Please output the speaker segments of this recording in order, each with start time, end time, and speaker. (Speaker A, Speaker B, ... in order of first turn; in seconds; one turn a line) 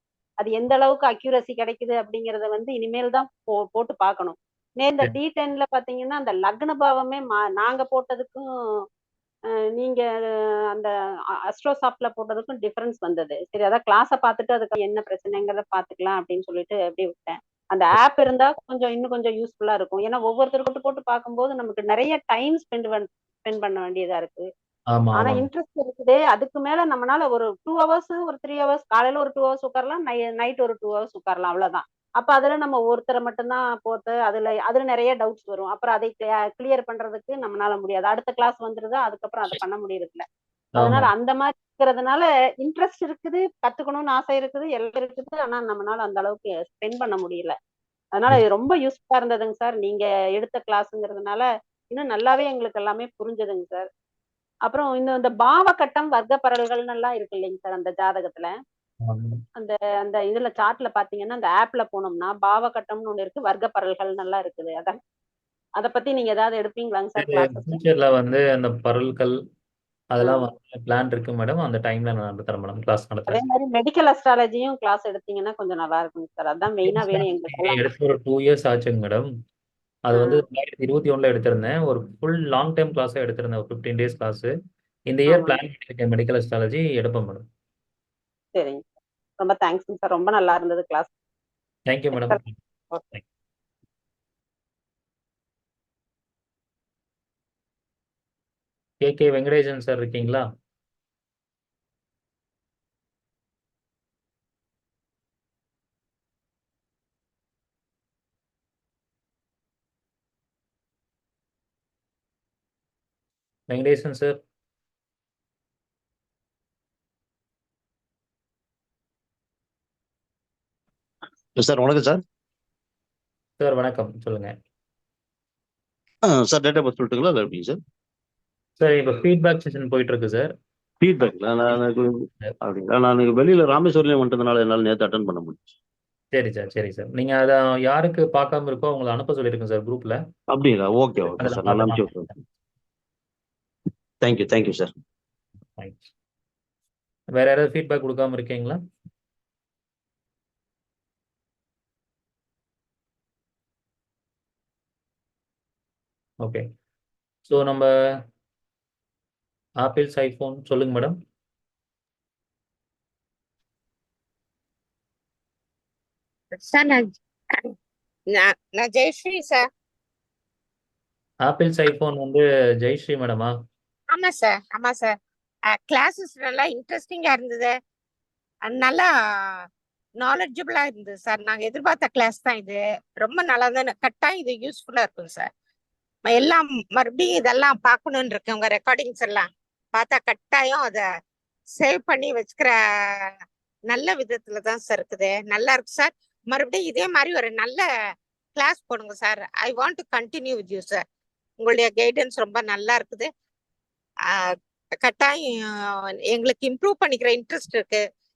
Speaker A: 0.4-8.4
Speaker A: 9.8-10.0
Speaker A: 11.5-24.5
Speaker B: 24.9-25.5
Speaker A: 25.1-40.2
Speaker B: 40.8-41.1
Speaker A: 40.8-47.5
Speaker A: 48.1-53.9
Speaker A: 54.7-58.5
Speaker B: 59.0-59.4
Speaker A: 59.6-65.0
Speaker A: 65.8-67.8
Speaker B: 67.2-69.4
Speaker B: 70.1-73.4
Speaker A: 73.3-77.8
Speaker B: 76.8-79.3
Speaker B: 80.1-84.5
Speaker A: 80.1-80.4
Speaker B: 85.1-87.5
Speaker A: 85.3-85.6
Speaker A: 88.6-88.8
Speaker A: 89.4-91.1
Speaker B: 91.9-92.5
Speaker A: 92.1-92.4
Speaker B: 99.0-100.5
Speaker B: 113.7-114.4
Speaker C: 121.6-122.2
Speaker B: 123.6-124.5
Speaker C: 126.2-127.8
Speaker B: 128.8-130.5
Speaker C: 131.0-135.7
Speaker B: 131.2-131.8
Speaker B: 136.3-140.2
Speaker C: 140.5-142.3
Speaker B: 141.3-142.2
Speaker C: 144.2-144.9
Speaker B: 145.8-146.1
Speaker B: 147.3-148.8
Speaker B: 157.5-158.2
Speaker B: 159.8-161.2
Speaker D: 166.6-167.7
Speaker D: 168.3-169.7
Speaker B: 171.4-173.5
Speaker D: 174.1-175.1
Speaker D: 175.7-177.7
Speaker D: 178.7-179.6
Speaker D: 180.2-185.5
Speaker D: 186.3-191.1
Speaker D: 191.8-193.3
Speaker D: 193.9-197.9
Speaker D: 198.6-201.0
Speaker D: 201.6-203.3
Speaker D: 204.3-204.5
Speaker D: 205.0-208.0